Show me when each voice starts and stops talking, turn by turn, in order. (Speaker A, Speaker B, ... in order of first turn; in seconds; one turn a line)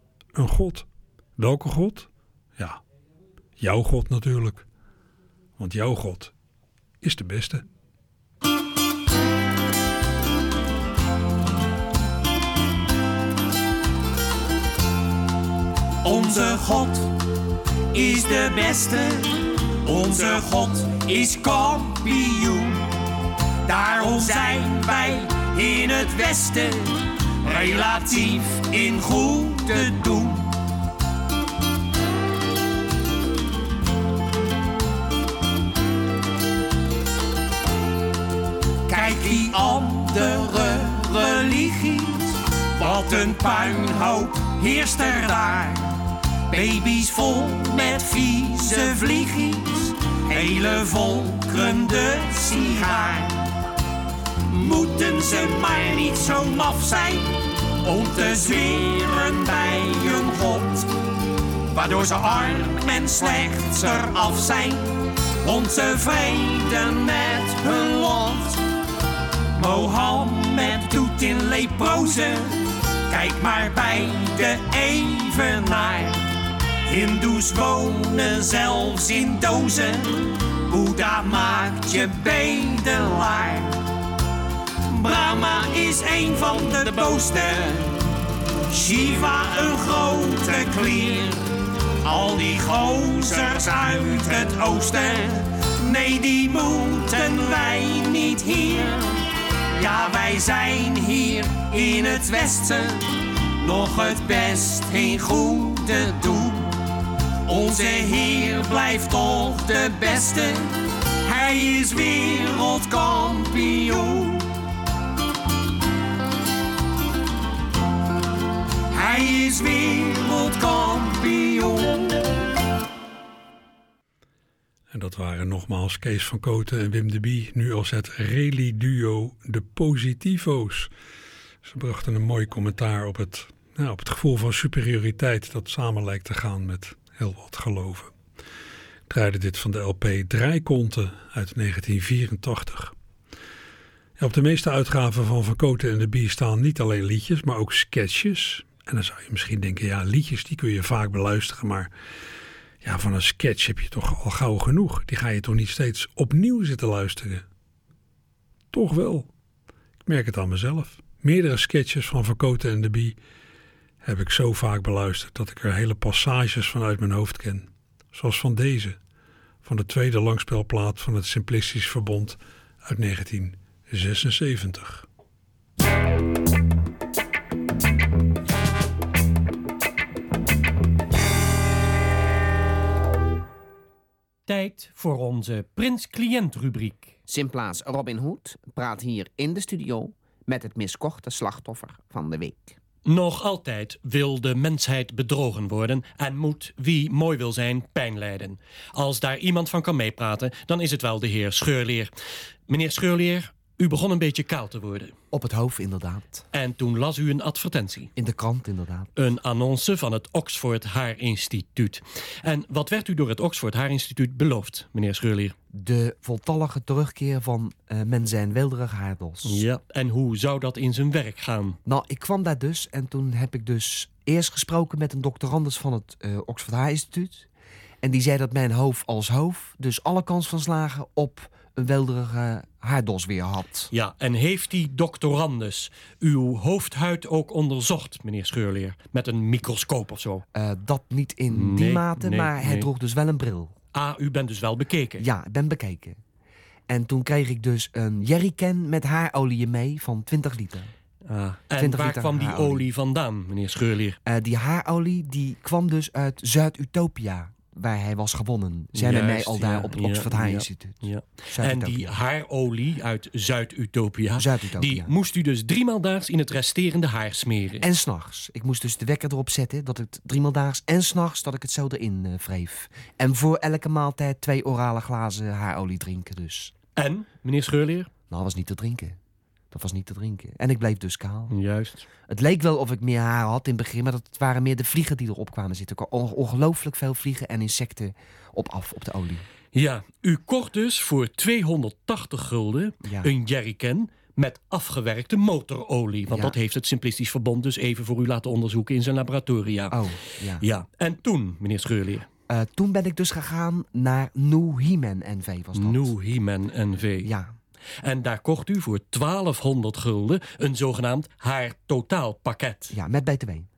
Speaker A: 0.3-2.8
Speaker A: 3.6-4.7
Speaker A: 5.6-6.3
Speaker A: 7.0-7.6
Speaker B: 16.0-17.1
Speaker B: 17.9-22.8
Speaker B: 23.6-30.5
Speaker B: 38.9-45.9
Speaker B: 46.5-53.4
Speaker B: 54.5-60.9
Speaker B: 61.7-68.6
Speaker B: 69.5-76.2
Speaker B: 76.9-83.8
Speaker B: 84.9-88.0
Speaker B: 88.7-91.4
Speaker B: 92.0-99.2
Speaker B: 99.8-103.1
Speaker B: 103.6-106.7
Speaker B: 107.5-110.7
Speaker B: 111.2-114.5
Speaker B: 118.9-122.1
Speaker A: 124.9-130.9
Speaker A: 131.6-138.1
Speaker A: 139.1-142.9
Speaker A: 144.2-151.9
Speaker A: 152.8-157.4
Speaker A: 158.7-159.3
Speaker A: 160.1-163.2
Speaker A: 164.0-169.0
Speaker A: 169.6-175.1
Speaker C: 184.5-187.1
Speaker D: 187.3-192.8
Speaker C: 193.1-202.1
Speaker C: 202.7-205.1
Speaker E: 205.3-206.4
Speaker C: 206.5-208.1
Speaker E: 208.2-209.1
Speaker C: 209.2-215.6
Speaker E: 215.7-219.6
Speaker C: 219.4-221.8
Speaker E: 221.9-227.5
Speaker E: 228.0-233.9
Speaker C: 233.9-240.4
Speaker E: 240.5-243.7
Speaker C: 241.5-242.9
Speaker C: 243.9-245.3
Speaker E: 245.2-246.2
Speaker E: 246.9-250.9
Speaker C: 251.3-254.2
Speaker E: 251.8-252.9
Speaker E: 254.3-262.1
Speaker C: 258.9-267.9
Speaker E: 264.4-265.1
Speaker E: 267.8-276.7
Speaker C: 277.0-278.1
Speaker E: 278.3-279.2
Speaker E: 279.7-281.5
Speaker C: 281.5-282.1
Speaker E: 282.3-289.4
Speaker C: 289.7-300.0
Speaker E: 293.0-293.3
Speaker E: 296.3-296.6
Speaker E: 299.9-300.6
Speaker C: 300.6-302.3
Speaker E: 302.5-306.1
Speaker C: 305.7-307.3
Speaker E: 307.2-307.5
Speaker C: 308.0-312.9
Speaker E: 312.9-313.7